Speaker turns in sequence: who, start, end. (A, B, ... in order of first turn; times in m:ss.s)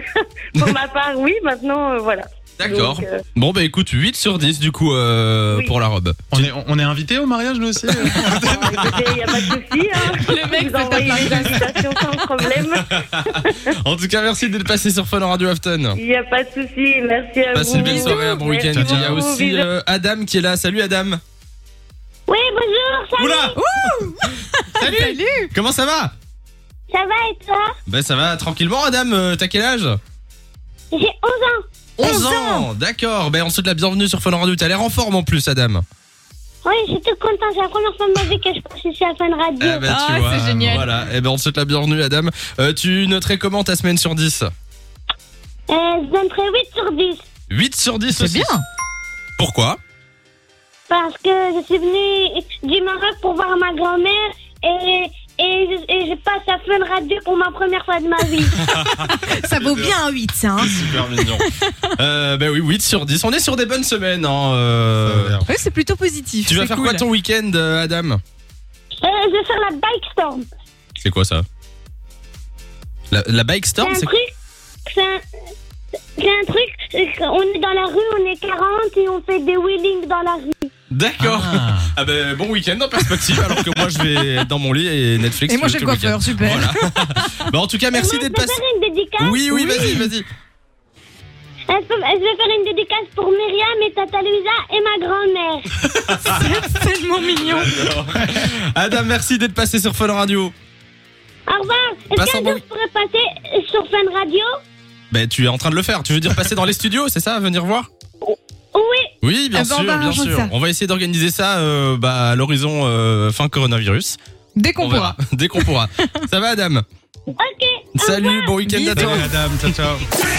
0:00.6-0:03.2 A
0:02.6-0:06.5 B
0:06.3-0:09.0 C
0:07.9-0:08.9 B
0:08.3-0:13.6 A
0:10.1-0:12.4 D
0:12.8-0:16.0 B
0:16.0-0:19.7 A
0:17.5-0:21.2 B
0:18.9-0:19.2 C
0:22.3-0:23.6 E
0:23.2-0:23.9 B
0:23.6-0:25.5 D
0:24.7-0:26.1 B
0:26.9-0:27.7 E
0:27.9-0:30.0 B
0:30.9-0:31.6 E
0:32.0-0:35.8 B
0:32.0-0:32.7 D
0:36.6-0:39.9 E
0:39.6-0:44.5 B
0:39.9-0:40.9 D
0:40.3-0:40.9 C
0:45.7-0:47.2 E
0:47.5-0:48.5 B
0:48.1-0:48.6 D
0:49.4-0:49.8 B
0:50.9-0:58.6 E
0:58.6-1:00.0 B
0:59.0-1:01.9 D
1:00.6-1:05.4 B
1:05.0-1:05.6 C
1:05.5-1:07.1 D
1:06.5-1:08.2 B
1:09.0-1:10.5 E
1:11.0-1:11.4 B
1:13.1-1:14.1 B
1:13.8-1:14.3 E
1:14.9-1:15.2 E
1:16.2-1:20.7 E
1:20.9-1:28.6 B
1:21.2-1:21.9 C
1:23.2-1:23.5 D
1:25.5-1:27.5 D
1:27.9-1:29.6 E
1:29.2-1:30.3 B
1:29.5-1:30.1 D
1:31.7-1:35.7 E
1:35.9-1:36.6 B
1:36.2-1:37.9 D
1:37.3-1:40.5 B
1:41.5-1:44.5 E
1:42.1-1:42.6 B
1:45.1-1:47.9 B
1:48.2-1:49.1 E
1:49.2-1:54.2 B
1:49.5-1:50.5 D
1:54.6-1:56.1 D
1:54.8-1:56.8 B
1:57.4-1:58.6 E
1:58.0-1:59.7 B
1:58.6-1:59.3 D
1:58.9-2:00.1 C